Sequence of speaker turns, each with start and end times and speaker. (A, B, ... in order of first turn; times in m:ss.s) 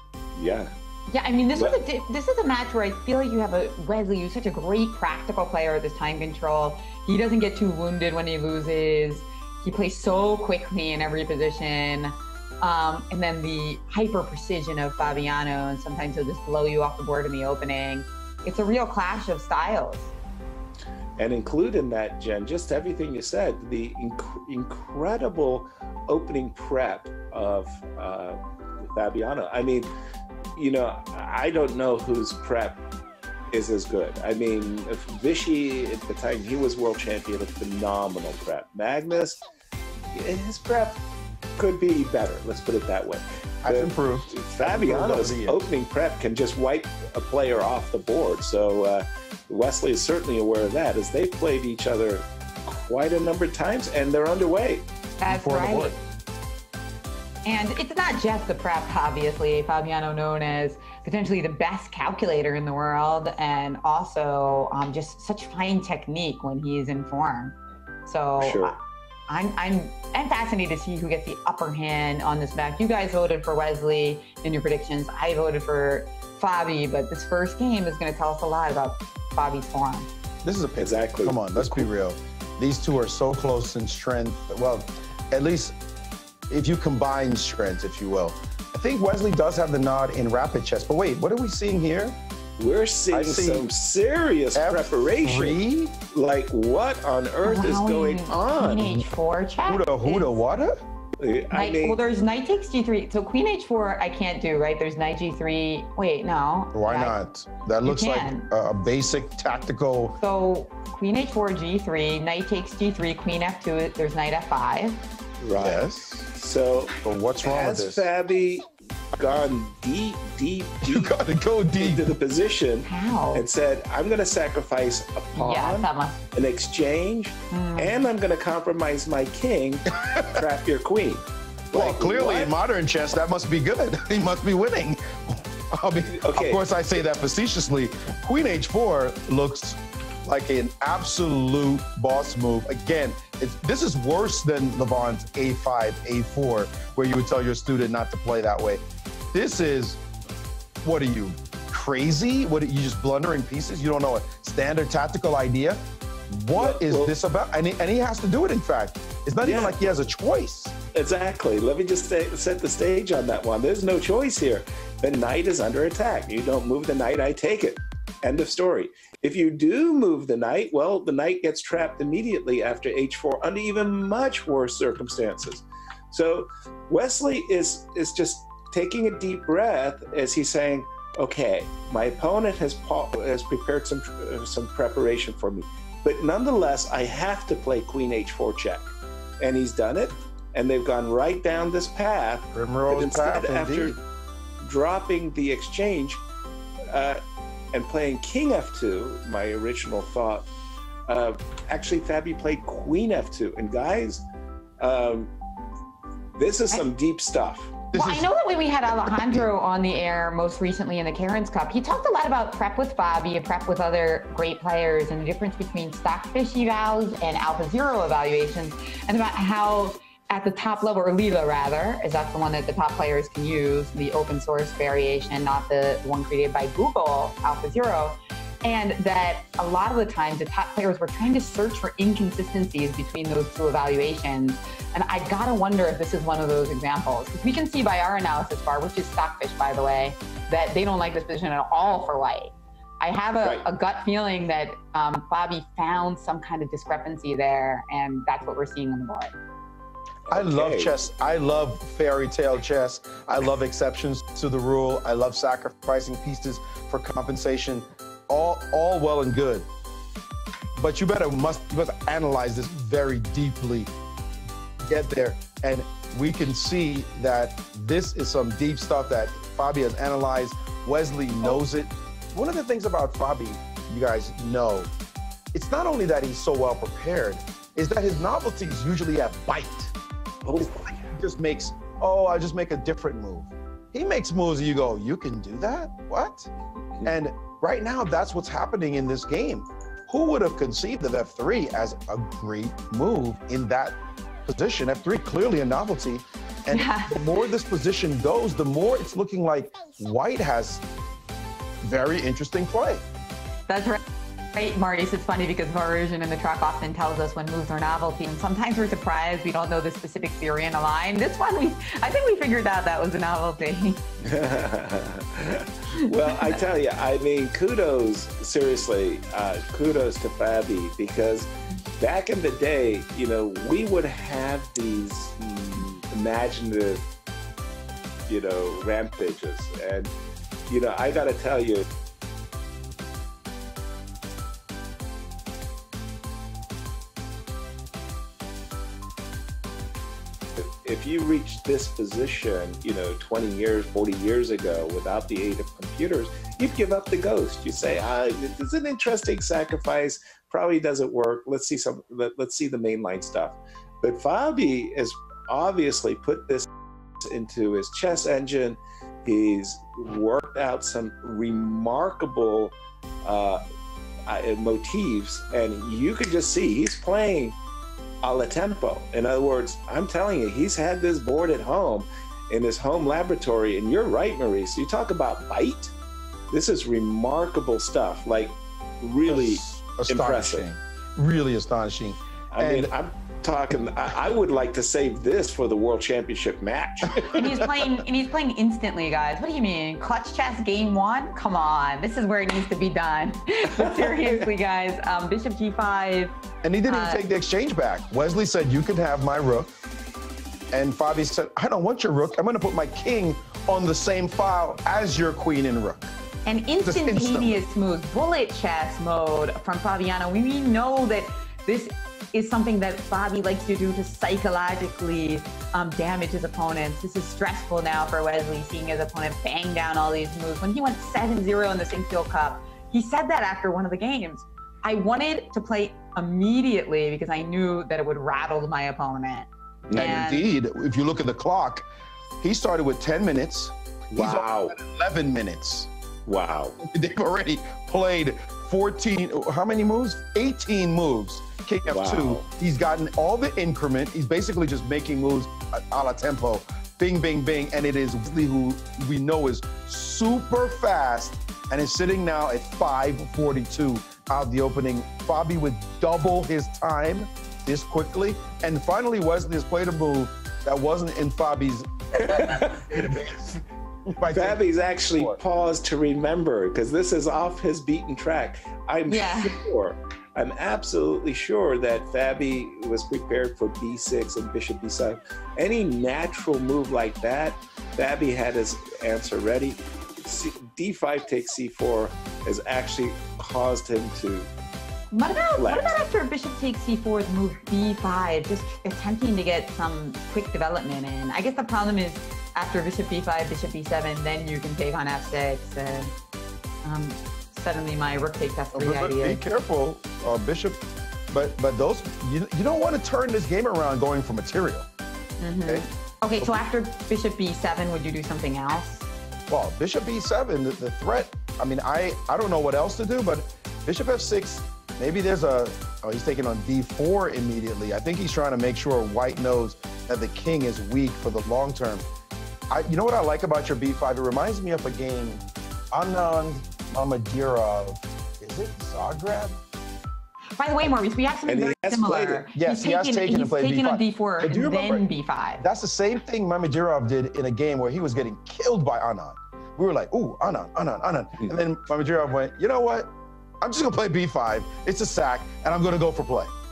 0:00.4-0:00.7 A
0:01.1-0:20.1 B
0:21.2-0:29.9 A
0:30.6-0:32.8 A
0:33.5-0:39.5 A
0:40.1-0:41.0 A
0:41.6-0:54.8 A
0:43.6-0:45.7 C
0:55.2-0:56.0 B
0:55.3-0:56.0 C
0:57.4-1:08.8 B
1:08.4-1:08.8 A
1:09.3-1:20.1 B
1:20.4-1:25.8 C
1:20.8-1:21.9 A
1:26.5-1:32.2 C
1:32.6-1:35.6 A
1:33.1-1:33.7 C
1:34.6-1:36.0 C
1:36.1-1:38.8 A
1:37.4-1:40.3 B
1:38.8-1:39.0 C
1:39.7-1:40.8 C
1:41.2-1:42.0 A
1:41.5-1:47.2 B
1:46.7-1:50.2 C
1:47.8-1:48.5 B
1:50.2-1:55.0 B
1:55.4-2:01.2 A
1:55.5-1:56.3 C
1:57.0-1:58.1 C
2:00.8-2:02.1 C
2:01.8-2:12.5 A
2:02.8-2:03.4 B
2:05.4-2:06.2 B
2:07.5-2:08.0 B
2:10.0-2:10.4 C
2:11.7-2:28.8 C
2:16.1-2:16.6 A
2:29.3-2:30.0 C
2:30.8-2:40.7 C
2:36.6-2:37.1 A
2:39.4-2:40.0 A
2:40.9-3:14.0 A
3:12.5-3:14.0 C
3:14.6-3:16.2 A
3:16.9-3:17.2 A
3:17.7-3:20.5 A
3:21.1-3:24.2 A
3:24.8-3:25.3 A
3:26.4-3:27.8 A
3:27.9-3:28.3 C
3:27.9-4:09.3 B
3:29.2-3:29.5 C
4:10.3-4:11.0 A
4:10.3-4:19.7 C
4:20.8-4:23.9 C
4:24.8-4:34.9 C
4:35.5-4:39.9 C
4:40.4-4:41.1 A
4:40.6-4:46.5 C
4:47.0-5:00.8 C
4:56.7-4:57.2 B
5:01.8-5:03.0 C
5:03.7-5:04.0 B
5:04.5-5:14.0 B
5:14.2-5:27.0 A
5:15.9-5:16.6 B
5:28.3-5:30.1 A
5:30.7-5:31.9 A
5:40.6-5:56.7 A
5:57.2-6:03.6 A
6:04.3-6:07.6 A
6:08.2-6:15.9 A
6:16.5-6:20.7 A
6:19.3-6:22.9 C
6:22.5-6:27.5 A
6:27.2-6:37.2 B
6:33.8-6:34.4 A
6:36.6-6:39.8 C
6:40.7-6:46.1 C
6:46.4-7:10.5 B
6:46.8-6:47.6 C
7:09.9-7:10.2 A
7:09.9-7:11.9 C
7:12.4-7:15.9 C
7:14.1-7:14.8 A
7:16.3-7:16.8 A
7:16.8-7:43.6 C
7:21.9-7:22.5 A
7:42.2-7:43.4 A
7:44.1-7:45.4 C
7:44.3-8:04.5 A
7:49.1-7:49.6 B
8:05.1-8:16.1 B
8:05.5-8:06.0 A
8:16.8-8:19.4 B
8:18.7-8:24.9 C
8:25.4-8:29.1 B
8:29.5-8:42.0 C
8:42.7-8:49.6 C
8:50.6-8:55.6 B
8:51.5-8:52.4 A
8:52.5-8:55.1 C
8:55.6-9:06.5 C